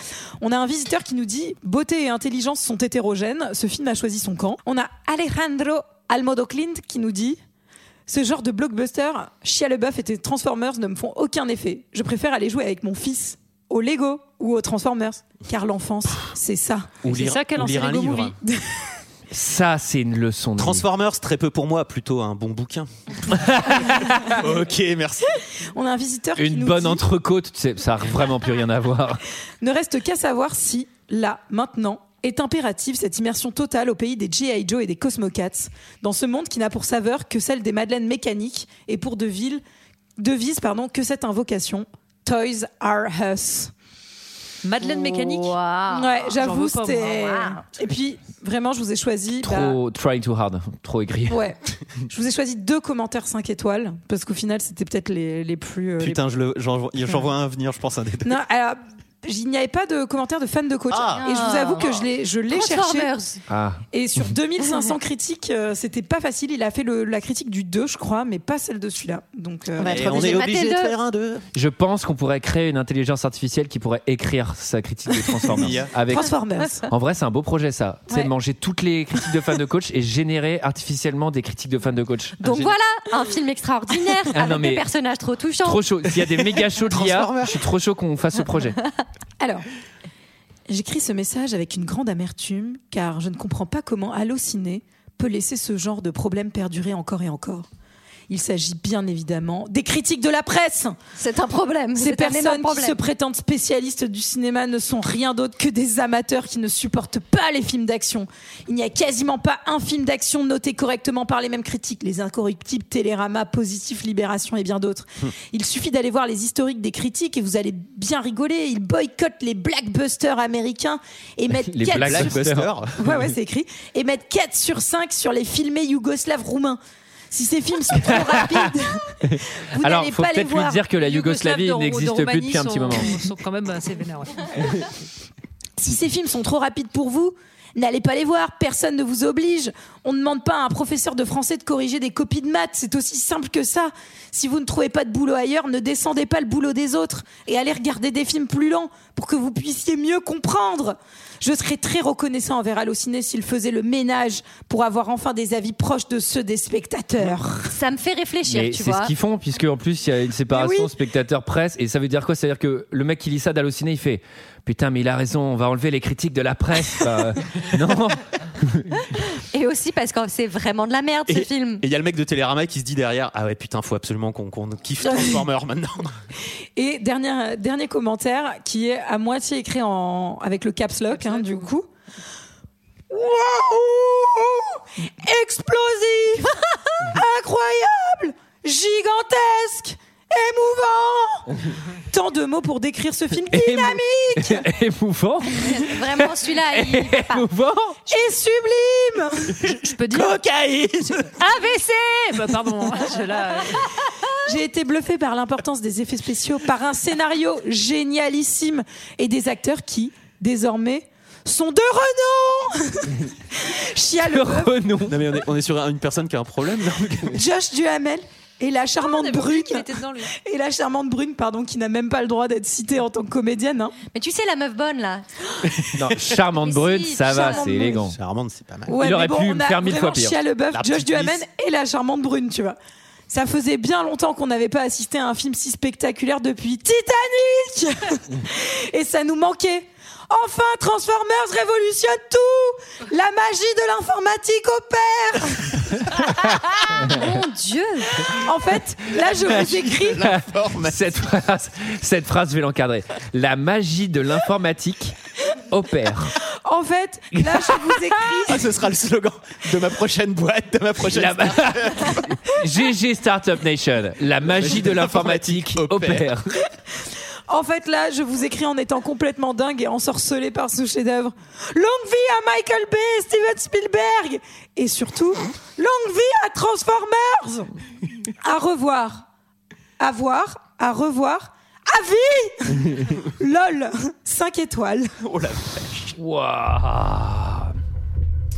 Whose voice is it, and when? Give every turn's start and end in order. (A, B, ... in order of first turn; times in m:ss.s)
0:00.4-0:07.4 A
0:08.1-0:16.9 A
0:17.0-0:18.3 B
0:17.0-0:18.4 C
0:18.5-0:18.9 A
0:19.3-0:20.8 D
0:20.6-0:22.9 B
0:23.3-0:24.4 D
0:23.4-0:25.3 B
0:25.6-0:27.0 A
0:26.4-0:29.2 D
0:29.6-0:39.6 A
0:40.2-0:43.7 A
0:44.6-0:45.6 C
0:44.8-0:46.2 E
0:45.9-0:49.8 A
0:46.4-0:47.1 C
0:47.0-0:47.6 E
0:49.4-0:51.4 D
0:51.3-0:56.2 A
0:56.0-0:58.4 B
0:58.2-1:03.1 A
1:00.9-1:01.3 B
1:01.1-1:03.4 E
1:03.5-1:03.8 D
1:03.9-1:10.4 A
1:09.8-1:10.9 E
1:09.8-1:11.4 B
1:11.5-1:16.3 D
1:15.4-1:16.9 A
1:15.5-1:15.9 B
1:16.9-1:22.7 D
1:22.4-1:25.8 E
1:24.3-1:24.8 D
1:25.6-1:28.8 D
1:26.8-1:27.6 B
1:29.4-1:29.6 A
1:30.7-1:37.6 A
1:38.3-1:41.0 A
1:41.2-1:43.0 E
1:42.0-2:02.4 A
2:01.6-2:02.7 D
2:01.9-2:03.3 B
2:03.0-2:06.8 A
2:07.3-2:10.8 A
2:08.0-2:08.7 D
2:09.2-2:13.2 D
2:11.0-2:14.8 C
2:15.8-2:37.7 A
2:37.7-2:39.1 E
2:38.5-2:49.0 D
2:40.5-2:40.9 A
2:49.5-2:51.8 E
2:51.3-2:56.1 B
2:55.0-2:55.4 A
2:56.8-3:01.8 A
3:01.1-3:01.7 C
3:03.1-3:11.6 A
3:12.1-3:14.7 A
3:13.5-3:18.0 D
3:15.6-3:17.5 E
3:18.1-3:19.6 A
3:19.6-3:20.4 C
3:20.1-3:21.4 B
3:21.1-3:23.9 C
3:24.4-3:34.7 A
3:34.2-3:35.2 D
3:35.1-3:37.4 B
3:37.3-3:43.9 A
3:39.0-3:40.3 C
3:44.1-3:45.2 E
3:45.9-3:48.2 D
3:46.5-3:47.8 E
3:47.3-3:48.0 A
3:47.8-3:48.9 B
3:48.9-3:52.8 A
3:48.9-3:50.4 D
3:50.7-3:51.4 B
3:53.3-4:06.3 A
4:06.4-4:07.3 D
4:07.0-4:08.2 E
4:08.2-4:10.2 A
4:09.2-4:11.2 B
4:09.4-4:09.6 D
4:10.2-4:15.1 D
4:15.7-4:16.3 D
4:16.6-4:18.7 A
4:18.4-4:22.3 B
4:21.0-4:26.5 D
4:24.4-4:26.3 B
4:26.9-4:37.7 A
4:38.4-4:39.2 A
4:40.0-4:45.1 A
4:45.2-4:46.2 B
4:46.2-4:47.8 D